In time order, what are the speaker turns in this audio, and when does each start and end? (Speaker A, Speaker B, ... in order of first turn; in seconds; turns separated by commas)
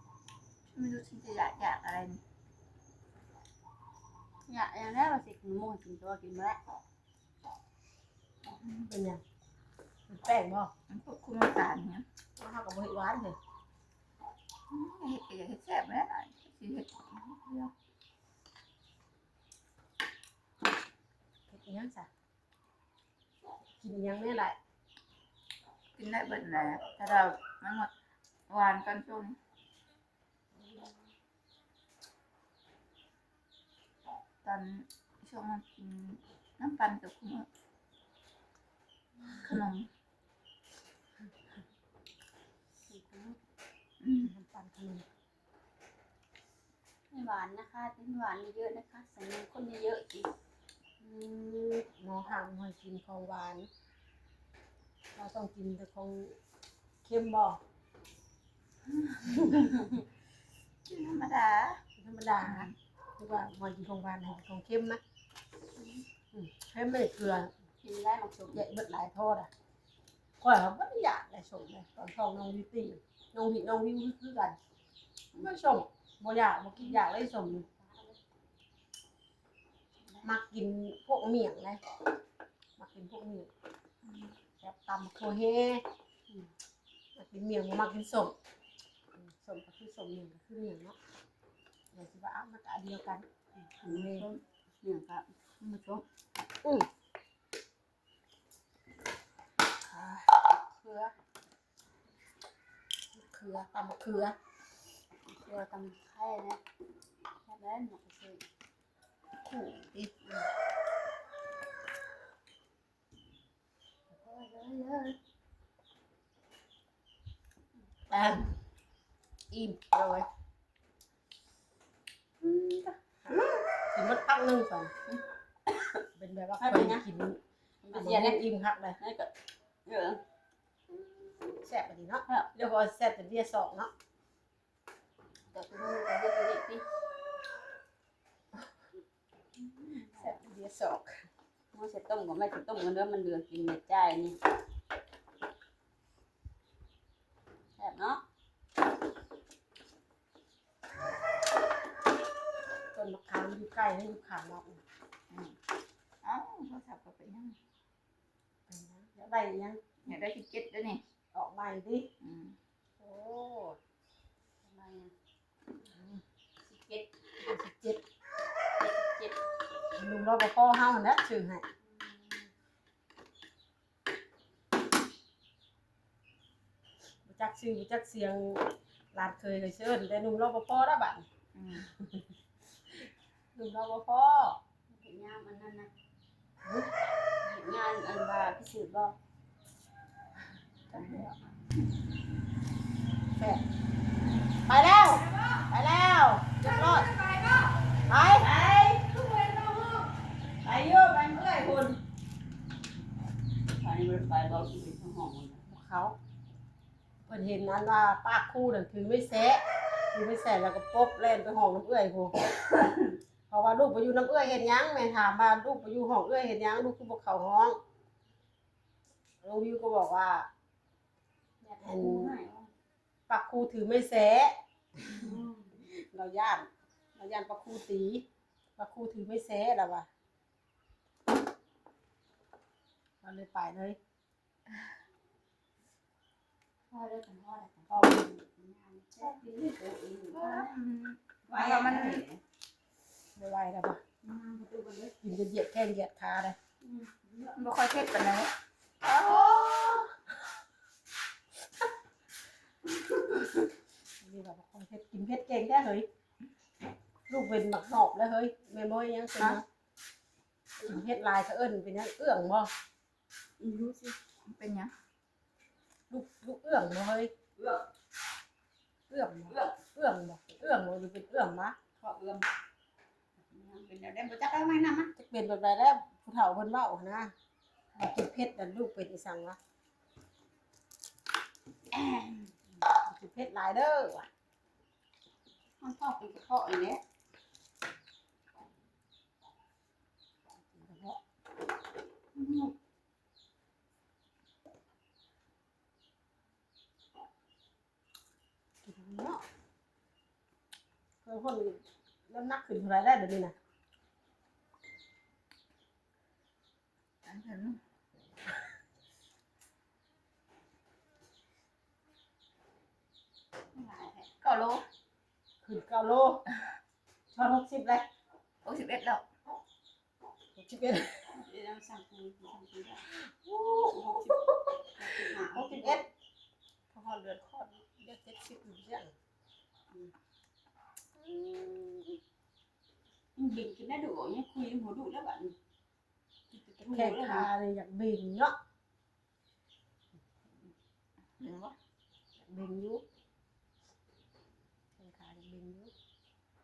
Speaker A: 0.7-2.2, Speaker B: 4.5-6.6, Speaker A: 8.5-8.9, Speaker C: 8.9-9.2, Speaker C: 10.1-10.7, Speaker A: 10.9-12.0, Speaker C: 12.4-13.3, Speaker A: 14.7-17.7, Speaker C: 21.5-22.1, Speaker C: 23.8-24.6, Speaker A: 26.0-27.9, Speaker A: 28.5-29.4, Speaker C: 30.6-31.0, Speaker A: 34.4-37.5, Speaker A: 39.3-39.9, Speaker B: 42.9-43.4, Speaker A: 44.0-44.3, Speaker C: 44.2-45.0, Speaker B: 47.1-50.3, Speaker C: 51.0-53.7, Speaker C: 55.1-56.4, Speaker C: 57.0-57.6, Speaker A: 59.1-59.8, Speaker A: 60.9-61.8, Speaker C: 62.0-65.0, Speaker A: 62.4-62.7, Speaker C: 66.3-67.5, Speaker B: 67.8-68.6, Speaker C: 68.5-69.5, Speaker C: 70.4-74.5, Speaker C: 75.4-77.7, Speaker B: 77.6-78.2, Speaker C: 80.2-81.8, Speaker C: 82.8-83.5, Speaker A: 84.0-84.3, Speaker C: 84.6-85.8, Speaker C: 87.2-88.3, Speaker C: 89.2-90.9, Speaker C: 91.9-93.2, Speaker B: 93.7-96.0, Speaker C: 93.8-94.3, Speaker C: 99.9-100.3, Speaker B: 100.5-101.1, Speaker C: 103.2-104.3, Speaker B: 105.2-106.6, Speaker B: 107.4-108.4, Speaker A: 109.5-110.1, Speaker B: 114.1-115.2, Speaker C: 118.1-118.6, Speaker C: 119.5-120.2, Speaker C: 122.4-124.9, Speaker B: 125.1-126.0, Speaker C: 126.2-127.4, Speaker B: 126.6-127.0, Speaker B: 127.8-128.4, Speaker C: 127.9-129.0, Speaker B: 129.0-129.3, Speaker B: 129.8-130.2, Speaker C: 130.9-133.9, Speaker B: 135.5-136.8, Speaker B: 139.6-140.4, Speaker C: 140.1-141.2, Speaker B: 141.7-144.4, Speaker B: 147.8-148.2, Speaker C: 152.9-154.8, Speaker A: 155.3-155.5, Speaker A: 156.2-157.6, Speaker C: 158.7-159.8, Speaker A: 160.1-161.0, Speaker C: 161.3-162.1, Speaker A: 162.2-162.6, Speaker C: 163.0-163.8, Speaker B: 164.6-165.1, Speaker C: 165.9-166.2, Speaker B: 166.6-167.1, Speaker C: 167.4-168.0, Speaker B: 168.8-169.4, Speaker C: 169.9-171.7, Speaker B: 171.8-172.5, Speaker C: 177.2-181.2, Speaker A: 181.5-181.9, Speaker C: 183.5-184.6, Speaker B: 184.9-185.9, Speaker C: 186.6-186.9, Speaker B: 187.4-189.2, Speaker A: 190.9-191.3, Speaker C: 190.9-191.3, Speaker C: 193.4-193.6, Speaker C: 194.7-197.1, Speaker B: 195.3-195.6, Speaker B: 196.6-197.7, Speaker C: 198.1-198.5, Speaker B: 198.4-200.1, Speaker B: 200.6-202.0, Speaker B: 203.7-205.6, Speaker C: 205.7-206.1, Speaker C: 207.2-209.6, Speaker C: 210.1-212.3, Speaker B: 212.7-213.0, Speaker C: 213.5-217.8, Speaker C: 219.4-220.5, Speaker B: 221.6-222.7, Speaker C: 221.8-222.3, Speaker C: 223.3-225.4, Speaker B: 225.1-225.8, Speaker C: 226.1-228.2, Speaker C: 228.8-230.1, Speaker C: 233.2-234.0, Speaker B: 236.9-240.7, Speaker C: 237.9-238.3, Speaker A: 240.3-242.2, Speaker B: 241.5-242.4, Speaker C: 243.3-244.0, Speaker B: 244.2-245.2, Speaker C: 245.2-246.6, Speaker B: 246.8-247.6, Speaker A: 247.6-248.5, Speaker A: 249.0-249.8, Speaker C: 249.1-250.1, Speaker C: 254.2-256.1, Speaker C: 257.3-259.6, Speaker C: 260.8-262.7, Speaker B: 263.6-264.1, Speaker A: 264.4-264.9, Speaker C: 266.1-267.3, Speaker B: 267.6-267.9, Speaker C: 269.1-271.8, Speaker B: 269.5-269.8, Speaker B: 272.0-272.5, Speaker B: 273.4-275.1, Speaker C: 275.1-277.3, Speaker C: 278.0-279.6, Speaker B: 281.9-282.5, Speaker C: 283.0-284.3, Speaker B: 285.8-287.0, Speaker C: 290.7-291.2, Speaker B: 292.4-292.7, Speaker C: 298.8-299.4, Speaker C: 301.2-303.5, Speaker A: 307.2-307.8, Speaker B: 313.7-314.3, Speaker A: 314.4-314.8, Speaker C: 315.6-316.4, Speaker C: 317.3-318.1, Speaker A: 318.6-319.2, Speaker C: 320.6-321.3, Speaker B: 321.3-323.1, Speaker C: 323.1-324.8, Speaker B: 323.9-326.0, Speaker C: 325.4-326.1, Speaker C: 326.9-329.1, Speaker C: 331.2-332.2, Speaker B: 333.4-335.5, Speaker B: 336.5-337.5, Speaker C: 336.9-338.5, Speaker A: 341.4-341.7, Speaker C: 342.4-343.0, Speaker C: 345.0-345.9